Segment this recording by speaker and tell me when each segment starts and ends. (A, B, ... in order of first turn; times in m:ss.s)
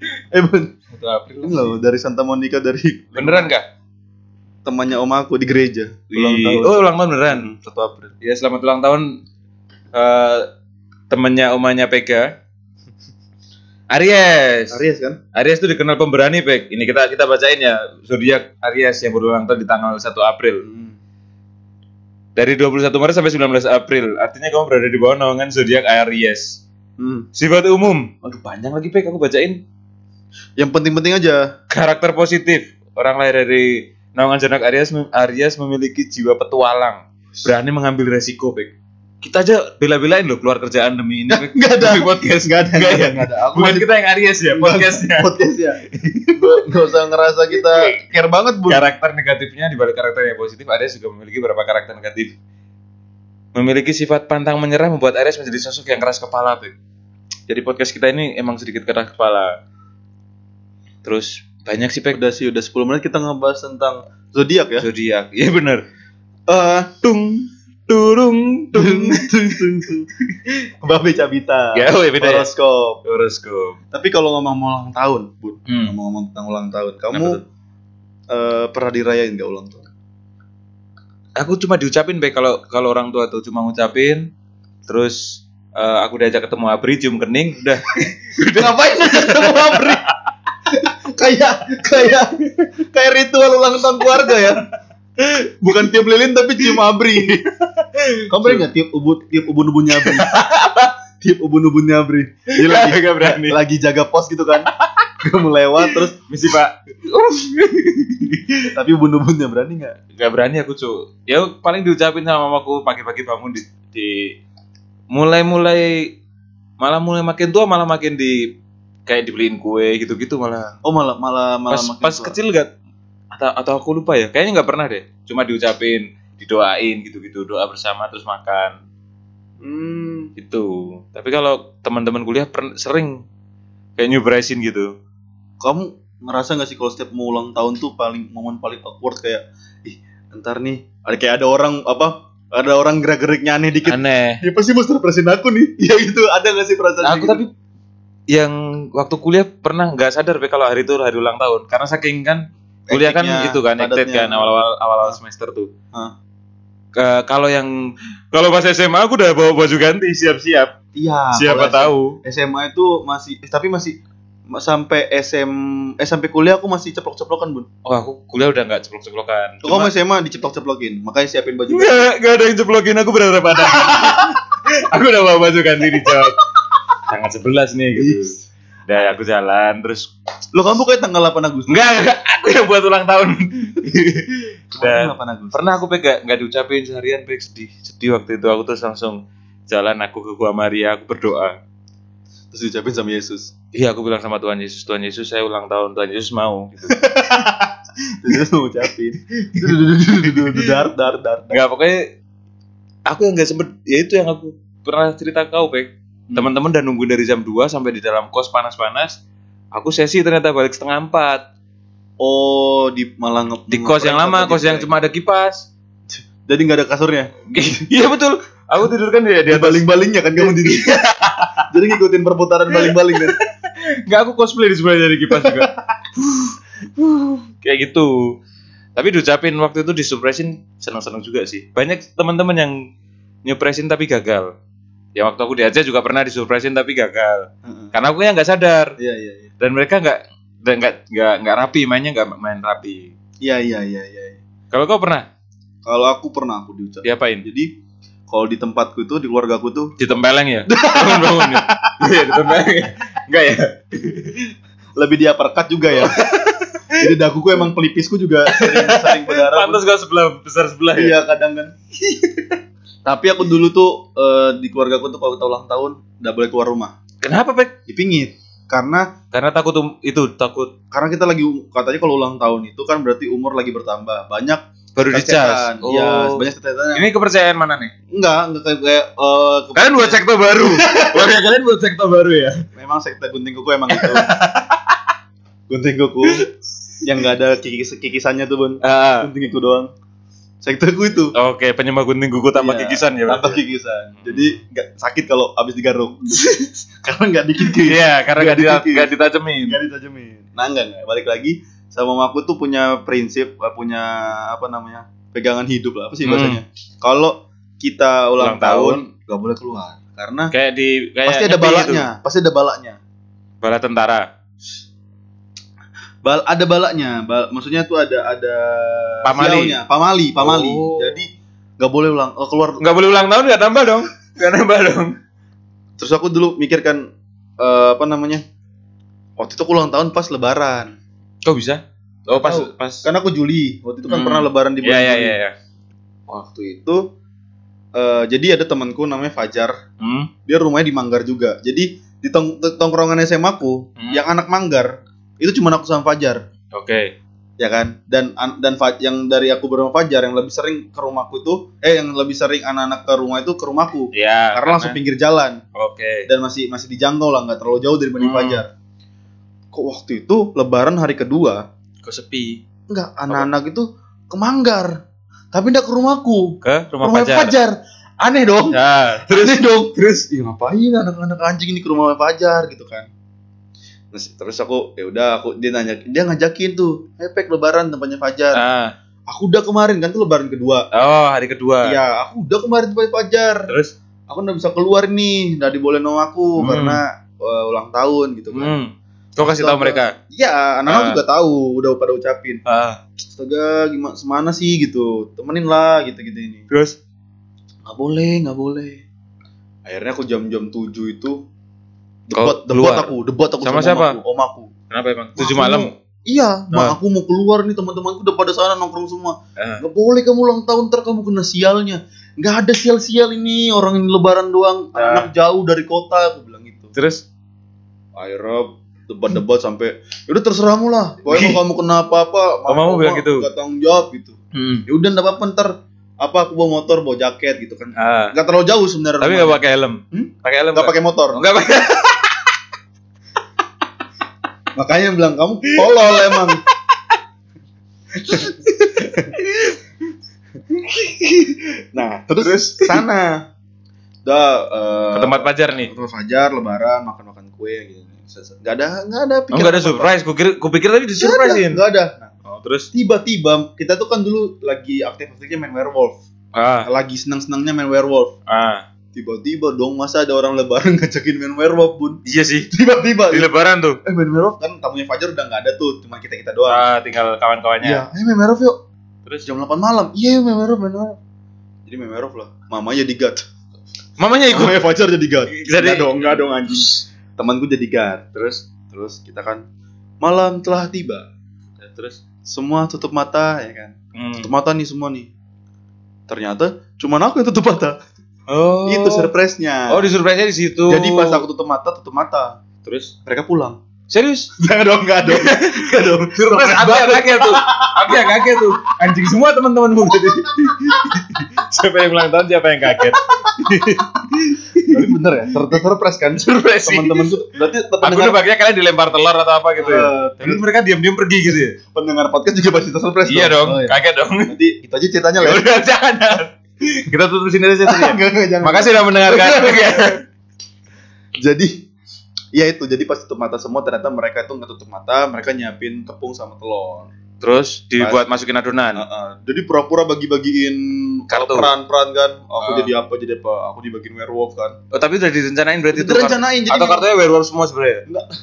0:00.3-0:00.7 A
0:00.9-0:01.7 B
0:01.4-0:03.5 A
0:03.2-0:03.6 B
0:04.6-0:08.1 A
0:06.1-0:07.5 B
0:08.2-0:09.1 B
0:09.9-0:10.5 B
0:11.1-0:12.3 B
0:13.9-0:14.8 B
0:14.7-0:15.2 A
0:15.3-0:20.6 B
0:20.6-0:21.0 A
0:22.4-0:26.5 B
0:27.0-0:27.2 A
0:27.3-0:29.6 B
0:30.6-0:31.5 A
0:31.7-0:45.3 B
0:41.3-0:43.9 A
0:44.5-0:45.8 A
0:45.9-0:46.7 B
0:46.3-0:48.9 A
0:47.5-0:48.0 B
0:48.7-0:52.3 B
0:53.5-0:56.7 B
0:57.5-0:59.5 B
1:01.0-1:02.2 B
1:02.1-1:04.9 A
1:04.8-1:05.8 B
1:06.5-1:06.9 A
1:07.0-1:09.8 B
1:08.7-1:10.1 A
1:10.8-1:13.0 A
1:11.7-1:12.5 B
1:13.0-1:13.8 B
1:13.9-1:17.4 A
1:15.7-1:15.9 B
1:17.1-1:17.4 B
1:18.3-1:19.9 A
1:21.4-1:24.2 B
1:24.9-1:30.1 B
1:28.4-1:30.0 A
1:30.8-1:34.6 A
1:34.0-1:34.6 B
1:35.2-1:35.9 B
1:35.6-1:37.4 A
1:37.6-1:38.6 B
1:38.3-1:40.3 A
1:39.9-1:40.9 B
1:41.2-1:46.1 A
1:42.5-1:43.6 B
1:44.6-1:45.1 B
1:45.8-1:48.7 B
1:48.7-1:50.0 A
1:50.2-1:54.3 B
1:55.1-1:56.1 B
1:56.8-1:58.4 B
1:59.1-2:00.8 B
2:00.8-2:02.4 A
2:01.7-2:02.7 B
2:03.3-2:08.8 B
2:09.6-2:10.3 A
2:10.4-2:13.2 B
2:14.0-2:14.9 B
2:15.6-2:27.4 A
2:23.8-2:24.4 B
2:27.0-2:27.5 B
2:28.3-2:35.7 B
2:32.9-2:34.5 A
2:36.9-2:40.7 B
2:40.9-2:44.0 A
2:41.3-2:42.2 B
2:44.5-2:47.6 A
2:47.8-2:49.9 B
2:49.6-2:52.0 A
2:51.7-2:56.4 B
2:53.7-2:54.2 A
2:57.0-2:58.3 B
2:58.0-2:58.4 A
2:58.9-3:00.1 B
3:00.5-3:01.8 A
3:01.7-3:11.6 B
3:04.8-3:05.6 A
3:12.5-3:13.5 A
3:13.7-3:17.0 B
3:16.9-3:21.6 A
3:19.6-3:20.7 B
3:21.5-3:22.1 B
3:23.0-3:29.2 B
3:29.7-3:31.4 B
3:32.2-3:34.9 A
3:33.7-3:35.6 B
3:36.2-3:37.3 A
3:37.5-3:41.6 B
3:39.5-3:41.0 A
3:41.7-3:43.4 A
3:42.7-3:48.3 B
3:45.3-3:45.7 A
3:49.0-3:52.7 B
3:53.4-3:54.5 B
3:55.2-3:59.0 B
3:57.6-3:57.9 A
3:59.0-3:59.5 A
3:59.6-4:03.1 B
4:03.4-4:04.4 A
4:04.7-4:05.3 B
4:05.8-4:07.7 A
4:07.0-4:07.4 B
4:08.3-4:10.0 A
4:10.0-4:14.5 B
4:10.7-4:12.5 A
4:15.0-4:16.3 A
4:15.9-4:17.1 B
4:17.0-4:19.8 A
4:18.5-4:21.1 B
4:20.9-4:21.7 A
4:23.0-4:26.9 A
4:27.2-4:27.7 B
4:27.9-4:29.1 A
4:29.3-4:30.7 B
4:30.9-4:37.1 A
4:35.0-4:36.4 B
4:36.9-4:37.9 B
4:38.1-4:41.3 A
4:39.8-4:42.6 B
4:42.8-4:44.3 A
4:43.9-4:45.0 B
4:45.7-4:46.4 A
4:47.0-4:49.9 A
4:48.8-4:49.3 B
4:50.6-4:51.3 A
4:51.3-4:53.6 B
4:52.5-4:59.1 A
4:54.2-4:54.6 B
4:57.6-4:59.8 B
4:59.6-5:10.5 A
5:06.2-5:06.6 B
5:08.4-5:09.0 B
5:10.5-5:12.1 B
5:11.2-5:13.0 A
5:13.6-5:14.2 B
5:16.2-5:22.8 A
5:19.2-5:19.8 B
5:20.4-5:21.2 B
5:22.8-5:25.1 B
5:26.0-5:27.0 A
5:27.6-5:28.4 A
5:29.4-5:30.9 A
5:31.4-5:33.0 B
5:32.4-5:35.4 A
5:34.1-5:35.5 B
5:36.3-5:37.0 A
5:38.0-5:39.8 A
5:40.0-5:40.3 B
5:40.4-5:46.4 A
5:46.7-5:47.1 B
5:47.6-5:55.6 A
5:54.1-5:55.0 B
5:55.7-5:56.3 B
5:56.2-5:58.7 A
5:58.2-5:58.6 B
5:59.7-6:01.6 A
6:02.0-6:02.6 B
6:02.9-6:04.9 A
6:05.5-6:13.1 A
6:06.6-6:07.6 B
6:08.7-6:10.2 B
6:14.1-6:18.6 A
6:18.5-6:18.9 B
6:19.3-6:20.8 A
6:20.9-6:22.0 B
6:21.8-6:23.7 A
6:24.3-6:28.7 A
6:26.6-6:27.0 B
6:28.5-6:30.1 B
6:29.4-6:32.6 A
6:30.9-6:31.2 B
6:32.6-6:33.0 B
6:33.3-6:36.6 A
6:36.7-6:37.0 B
6:37.8-6:39.0 A
6:39.8-6:41.4 A
6:42.3-6:44.7 A
6:42.3-6:43.1 B
6:43.6-6:44.2 B
6:44.9-6:45.9 B
6:45.4-6:56.9 A
6:49.6-6:49.8 B
6:54.9-6:55.3 B
6:56.9-6:57.2 B
6:58.2-7:04.4 A
7:01.3-7:01.6 B
7:02.7-7:03.5 B
7:04.5-7:04.8 B
7:04.9-7:05.7 A
7:06.2-7:09.6 A
7:08.0-7:08.3 B
7:09.2-7:12.5 B
7:10.1-7:11.4 A
7:14.8-7:16.6 A
7:15.7-7:17.0 B
7:18.2-7:19.3 A
7:18.3-7:19.8 B
7:20.8-7:21.6 B
7:21.9-7:23.4 A
7:22.4-7:23.0 B
7:24.2-7:30.1 A
7:25.1-7:25.9 B
7:29.5-7:31.8 B
7:31.2-7:32.3 A
7:32.4-7:32.9 B
7:32.9-7:36.2 A
7:36.5-7:36.9 B
7:36.8-7:38.3 A
7:38.5-7:38.8 B
7:39.1-7:42.2 A
7:42.2-7:42.7 B
7:42.7-7:43.5 A
7:43.3-7:44.0 B
7:44.0-7:46.8 A
7:46.7-7:48.0 B
7:47.8-7:48.8 A
7:49.4-7:51.2 A
7:51.8-7:53.5 A
7:54.2-7:54.8 B
7:54.5-7:59.6 A
7:55.5-7:56.9 B
8:00.2-8:01.2 A
8:01.9-8:02.2 B
8:02.4-8:05.3 A
8:04.1-8:04.5 B
8:06.3-8:08.0 A
8:08.5-8:09.3 B
8:08.8-8:10.1 A
8:09.9-8:11.4 B
8:10.9-8:12.6 A
8:12.8-8:13.1 B
8:13.2-8:13.8 A
8:14.1-8:14.5 B
8:14.6-8:18.6 A
8:15.2-8:25.1 B
8:22.9-8:24.0 A
8:24.9-8:28.4 A
8:26.4-8:27.4 B
8:28.0-8:31.8 B
8:29.8-8:30.6 A
8:31.9-8:35.6 A
8:33.3-8:34.5 B
8:35.4-8:40.2 B
8:37.8-8:40.1 A
8:41.4-8:41.7 A
8:42.5-8:47.1 A
8:47.4-8:49.0 B
8:48.0-8:48.2 A
8:49.0-8:54.8 A
8:51.3-8:51.7 B
8:52.6-8:52.9 B
8:54.9-8:58.0 B
8:55.9-8:57.0 A